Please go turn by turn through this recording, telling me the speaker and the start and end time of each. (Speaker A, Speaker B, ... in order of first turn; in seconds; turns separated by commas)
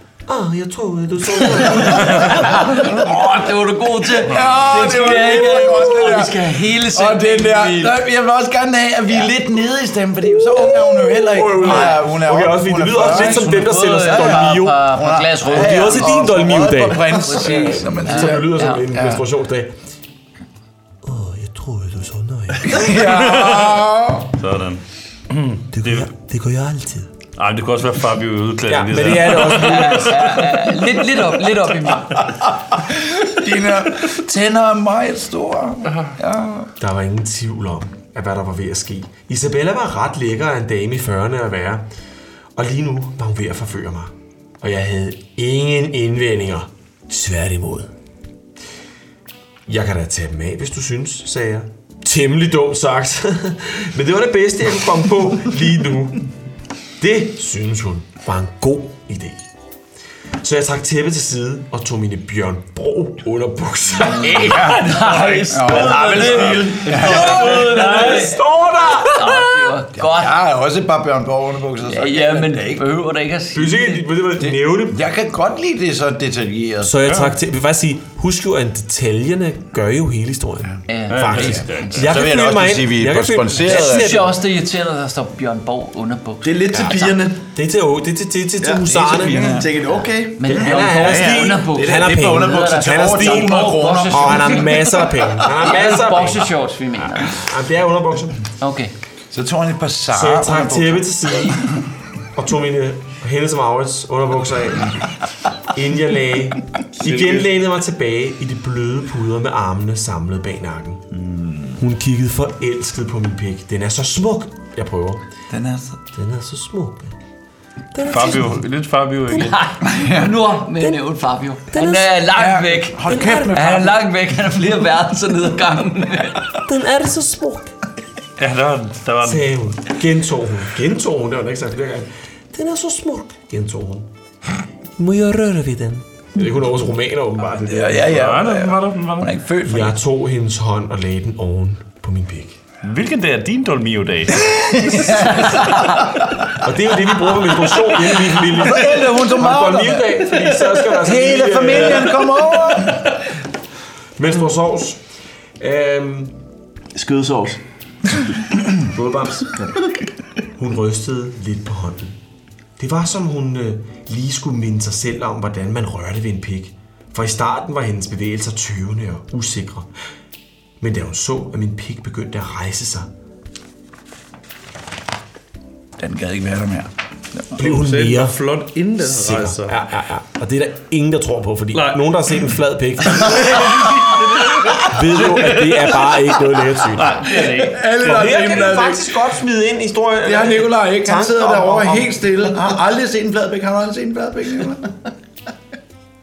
Speaker A: 0.3-2.7, Speaker B: 1.6-8.0, Speaker C: 2.7-19.2, Speaker B: 9.1-9.3, Speaker A: 11.2-14.8, Speaker B: 11.6-12.0, Speaker B: 13.0-16.4, Speaker A: 15.4-19.7, Speaker B: 17.2-18.9, Speaker A: 21.0-22.9, Speaker C: 22.7-24.3, Speaker D: 23.1-26.1, Speaker A: 25.7-27.1, Speaker D: 27.4-30.6, Speaker A: 28.7-30.1, Speaker B: 29.6-32.3, Speaker C: 32.3-36.7, Speaker A: 36.8-41.9, Speaker A: 42.5-47.9, Speaker A: 49.7-56.2, Speaker A: 57.0-59.5, Speaker A: 60.4-64.8, Speaker B: 64.2-66.2, Speaker C: 64.4-64.9, Speaker D: 64.5-68.3, Speaker C: 65.5-67.3, Speaker E: 65.7-67.1, Speaker A: 65.8-69.4, Speaker B: 67.4-68.3, Speaker B: 69.2-70.4, Speaker C: 69.9-72.9, Speaker B: 71.8-74.0, Speaker A: 73.5-75.0, Speaker C: 74.4-76.9, Speaker A: 76.8-84.3, Speaker D: 77.0-77.4, Speaker B: 80.9-81.3, Speaker D: 81.1-82.3, Speaker C: 81.3-84.2, Speaker B: 83.7-87.3, Speaker E: 86.4-87.4, Speaker A: 86.8-89.6, Speaker E: 88.6-90.8, Speaker C: 89.2-89.7, Speaker B: 90.4-97.4, Speaker A: 90.5-96.5, Speaker C: 90.6-94.7, Speaker A: 97.1-98.4, Speaker B: 98.6-98.9, Speaker C: 99.3-101.1, Speaker A: 100.1-101.7, Speaker A: 102.3-105.0, Speaker A: 105.7-111.0, Speaker A: 111.8-115.2, Speaker C: 115.5-116.0, Speaker A: 116.1-117.1, Speaker A: 117.9-118.6, Speaker D: 118.0-119.8, Speaker A: 119.3-119.5, Speaker B: 119.3-126.5, Speaker C: 119.8-120.5, Speaker A: 120.7-121.0, Speaker A: 121.7-122.3, Speaker C: 122.3-124.0, Speaker A: 123.0-123.6, Speaker A: 126.6-127.7, Speaker D: 128.4-129.5, Speaker A: 129.2-134.1, Speaker A: 135.0-138.3, Speaker C: 137.7-140.0, Speaker D: 138.1-139.3, Speaker A: 139.6-142.6, Speaker D: 142.8-144.4, Speaker C: 144.8-145.5, Speaker A: 146.6-152.2, Speaker C: 148.5-153.0, Speaker A: 154.2-155.0, Speaker A: 155.6-156.4, Speaker E: 156.9-157.6, Speaker A: 158.9-159.6, Speaker A: 160.6-162.2, Speaker A: 162.8-169.9, Speaker A: 170.8-173.1, Speaker C: 176.0-177.6, Speaker A: 177.6-183.9, Speaker D: 177.6-179.8, Speaker D: 181.7-182.5, Speaker D: 183.0-189.0, Speaker A: 184.8-187.4, Speaker C: 187.2-188.9, Speaker A: 188.0-192.6, Speaker C: 190.2-195.1